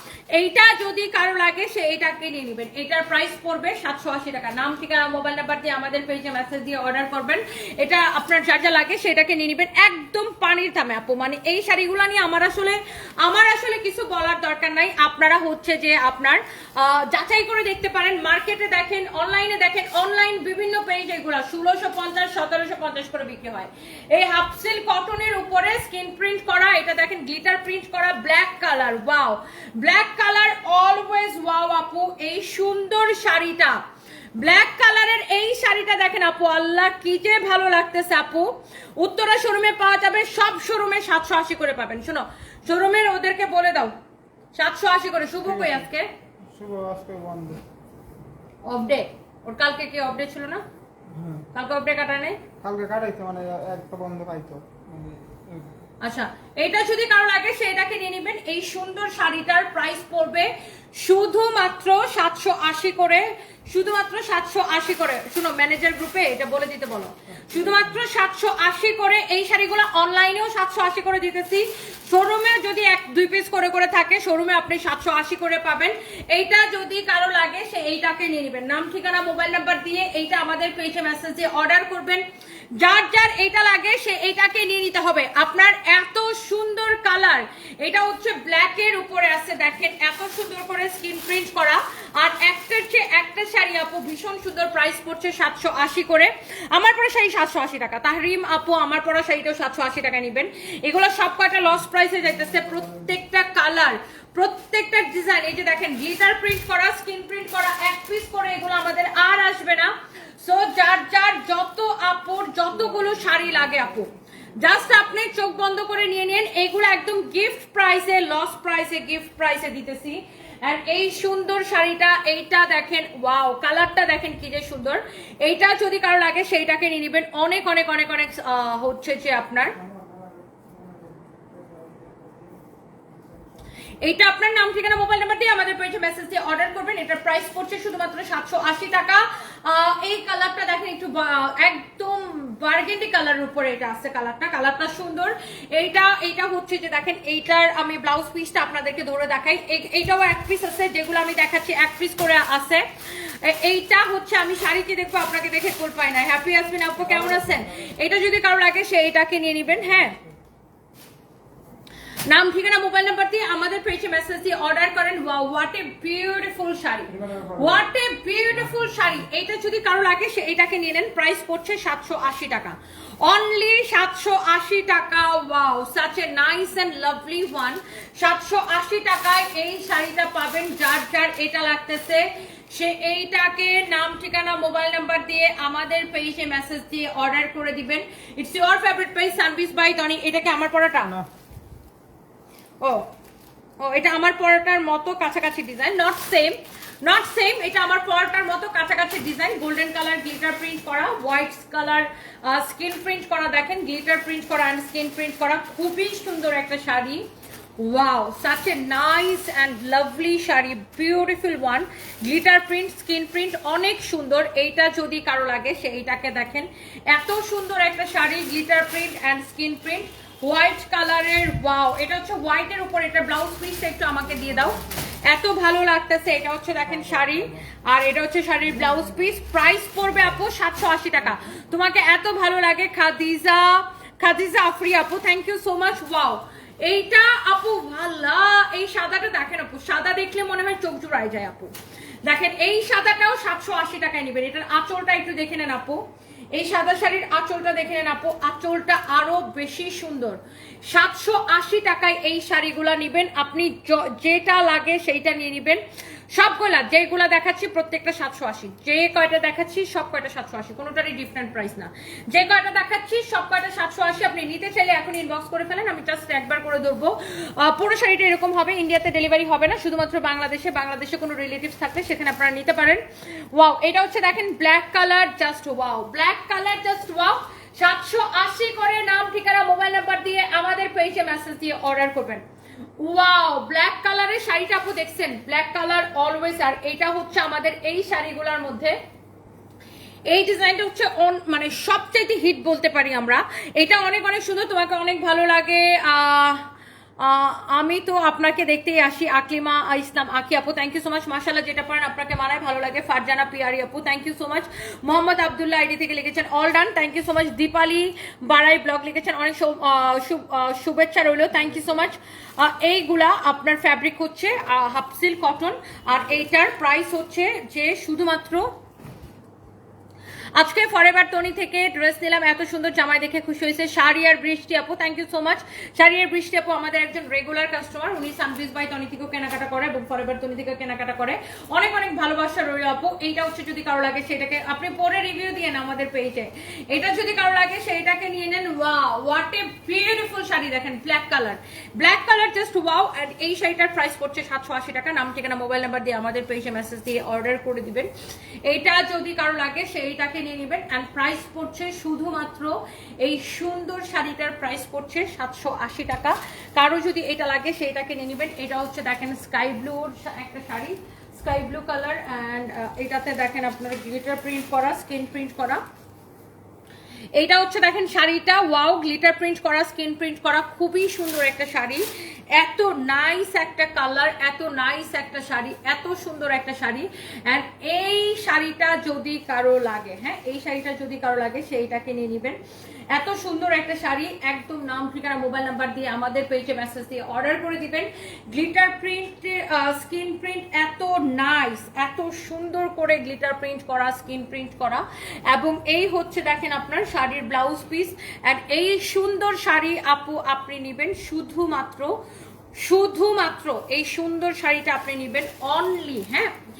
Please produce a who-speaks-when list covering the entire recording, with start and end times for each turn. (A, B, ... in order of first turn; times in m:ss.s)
0:00.3-0:33.8 A
0:34.4-0:43.9 A
0:44.5-0:46.1 A
0:45.4-0:45.9 B
0:46.5-0:47.6 B
0:48.6-0:50.6 A
0:51.1-0:51.4 B
0:51.5-0:52.4 A
0:52.6-0:55.8 B
0:56.0-1:22.2 A
1:07.5-1:08.0 B
1:22.8-2:09.7 A
1:42.2-1:43.1 B
1:53.0-1:54.1 B
2:09.7-2:13.6 B
2:14.0-2:40.2 A
2:37.0-2:38.0 B
2:39.7-2:40.3 B
2:42.3-3:11.2 A
2:47.1-2:47.8 B
3:12.8-3:13.1 A
3:13.8-3:27.2 A
3:27.8-4:01.7 A
3:44.3-3:44.8 B
3:46.8-3:47.6 B
3:48.7-3:49.3 B
4:02.2-4:06.0 A
4:06.5-4:15.8 A
4:16.3-4:42.4 A
4:43.0-4:48.9 A
4:50.3-4:56.6 A
4:57.2-5:18.7 A
5:20.6-5:48.1 A
5:48.7-6:05.8 A
6:07.4-6:22.6 A
6:23.1-6:42.1 A
6:42.8-6:46.5 A